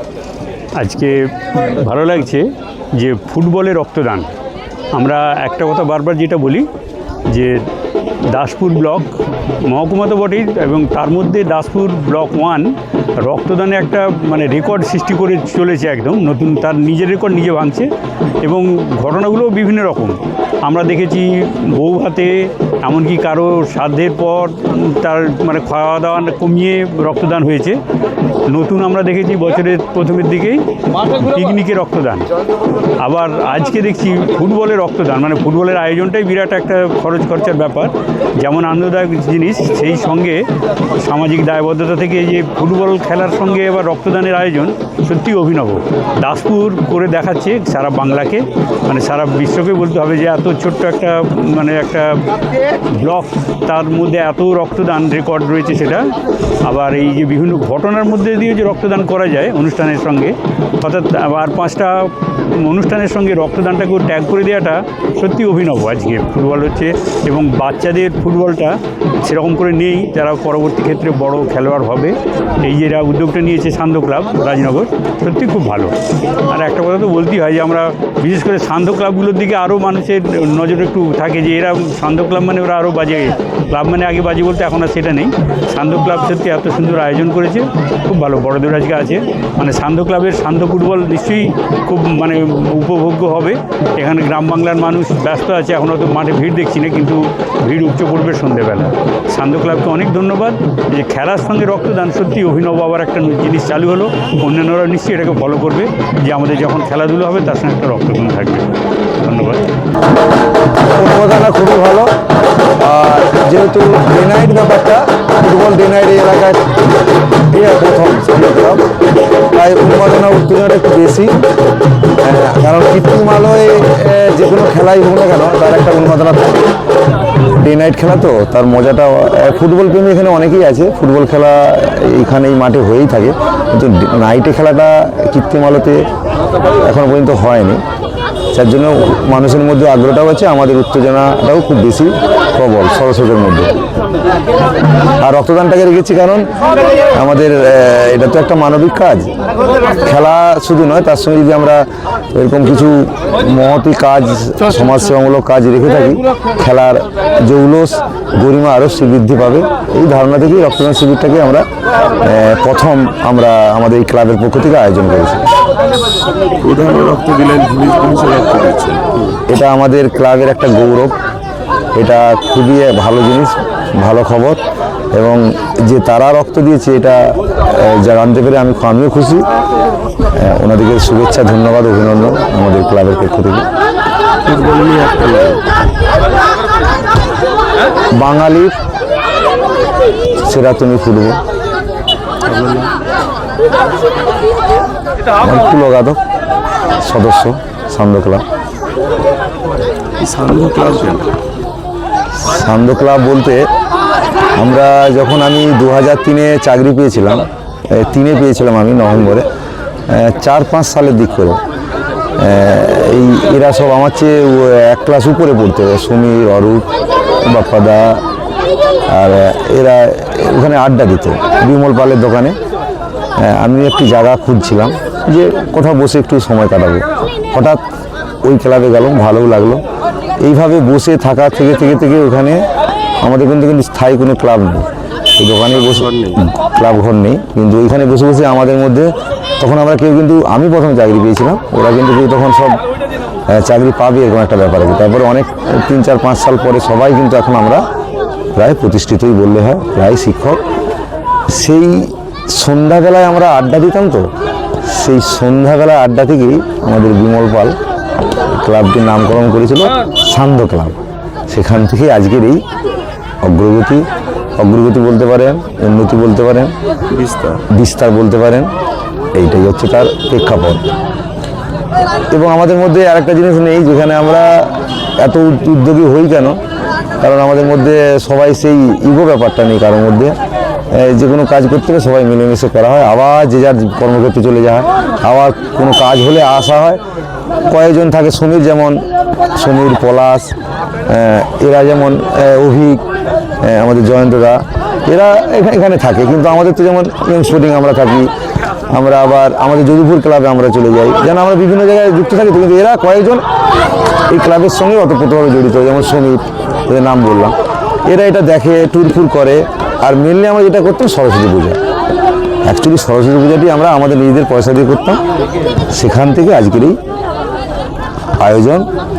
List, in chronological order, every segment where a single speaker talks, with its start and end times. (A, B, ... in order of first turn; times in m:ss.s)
0:00.8-0:04.3 A
0:04.9-0:06.7 A
0:07.3-0:07.6 A
0:08.3-0:09.1 A
0:09.7-0:17.9 A
0:18.4-0:27.8 A
0:28.5-0:32.3 A
0:33.0-0:40.4 A
0:41.0-0:56.1 A
0:56.6-1:15.9 A
1:16.5-1:48.7 A
1:49.2-1:49.6 A
1:50.9-1:52.1 B
1:52.8-1:56.6 B
1:57.5-1:58.8 B
1:59.5-2:01.3 B
2:02.2-2:06.7 B
2:07.6-2:16.0 B
2:16.8-2:17.8 B
2:18.6-2:23.8 B
2:25.2-2:29.3 B
2:29.9-2:41.6 B
2:42.2-2:45.5 B
2:46.6-2:49.3 C
2:49.5-2:51.1 B
2:52.0-2:54.6 B
2:55.2-2:59.5 B
3:00.4-3:03.7 B
3:04.5-3:05.5 C
3:08.2-3:08.7 B
3:10.4-3:11.4 B
3:12.5-3:12.9 C
3:15.4-3:16.2 B
3:17.0-3:18.4 B
3:20.2-3:21.2 C
3:22.4-3:23.6 B
3:24.6-3:29.5 B
3:30.1-3:31.6 B
3:32.4-3:36.8 B
3:37.4-3:38.2 B
3:39.1-3:42.6 B
3:43.4-3:47.8 B
3:48.4-3:49.8 B
3:50.4-3:52.6 B
3:53.2-4:02.8 B
4:03.5-4:07.8 B
4:08.6-4:10.6 B
4:11.5-4:14.2 B
4:14.9-4:17.8 B
4:18.4-4:21.0 B
4:21.5-4:22.6 B
4:23.4-4:24.1 B
4:24.6-4:26.7 B
4:27.1-4:27.5 C
4:27.7-4:28.7 B
4:29.4-4:30.8 B
4:32.3-4:36.6 B
4:37.2-4:40.4 B
4:40.9-4:47.0 B
4:47.7-4:50.5 B
4:51.1-4:53.0 B
4:53.6-4:58.3 B
4:58.9-5:03.4 B
5:04.3-5:07.6 B
5:08.1-5:11.8 B
5:12.6-5:15.2 B
5:15.9-5:17.0 B
5:18.4-5:18.9 B